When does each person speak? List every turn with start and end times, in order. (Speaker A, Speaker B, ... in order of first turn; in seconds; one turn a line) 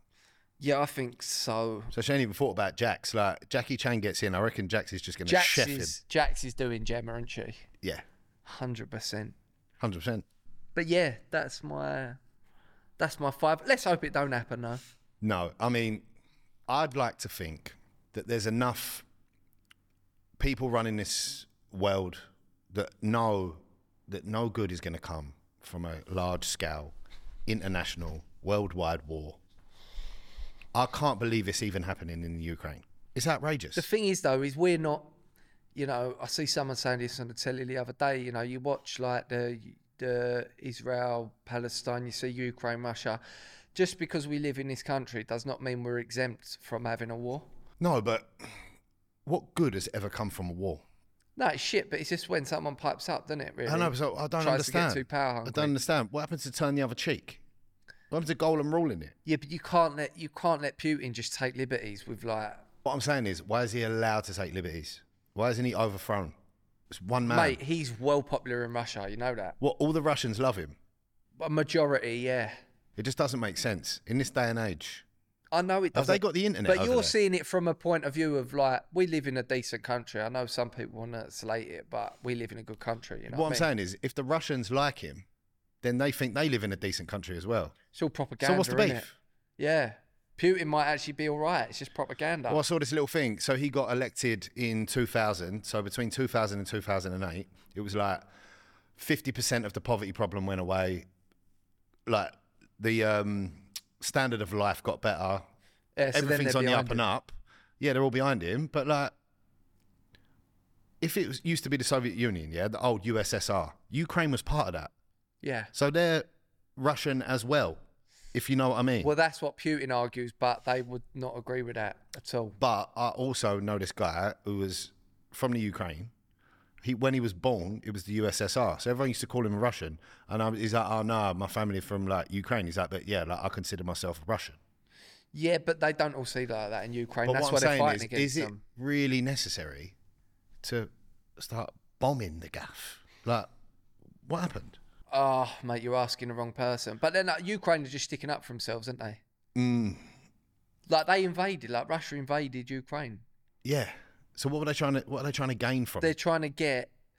Speaker A: 0.6-1.9
Speaker B: 1.9-5.9
Speaker A: 5.3-7.7
Speaker A: 8.4-9.3
Speaker B: 9.8-10.2
Speaker A: 10.8-12.2
Speaker A: 13.0-14.8
Speaker B: 15.2-16.1
Speaker B: 16.7-19.1
Speaker B: 20.4-26.9
Speaker B: 27.5-29.4
Speaker B: 30.7-33.9
Speaker A: 33.8-35.1
Speaker A: 35.8-43.2
Speaker A: 43.8-47.5
Speaker B: 47.8-48.6
Speaker B: 49.3-50.8
Speaker A: 51.4-55.7
Speaker B: 53.7-57.4
Speaker B: 58.1-59.1
Speaker A: 59.2-62.6
Speaker B: 62.8-66.3
Speaker B: 66.9-67.6
Speaker A: 67.3-69.6
Speaker B: 69.6-70.8
Speaker A: 71.4-72.6
Speaker B: 73.0-75.0
Speaker A: 75.5-83.7
Speaker B: 75.9-77.1
Speaker B: 83.3-85.3
Speaker B: 85.8-87.8
Speaker A: 87.9-89.1
Speaker B: 88.4-89.1
Speaker A: 89.6-92.6
Speaker B: 92.5-98.3
Speaker B: 99.0-101.1
Speaker B: 102.1-105.5
Speaker A: 106.0-107.0
Speaker B: 106.1-109.1
Speaker B: 111.0-114.9
Speaker A: 115.4-115.7
Speaker B: 115.7-117.8
Speaker B: 118.3-119.1
Speaker A: 119.0-122.6
Speaker B: 122.6-126.1
Speaker B: 126.8-134.6
Speaker A: 135.3-138.6
Speaker B: 137.3-139.9
Speaker B: 140.6-143.5
Speaker B: 144.2-144.8
Speaker A: 145.1-149.2
Speaker B: 149.6-150.0
Speaker A: 150.9-153.2
Speaker B: 153.6-156.2
Speaker A: 156.0-156.9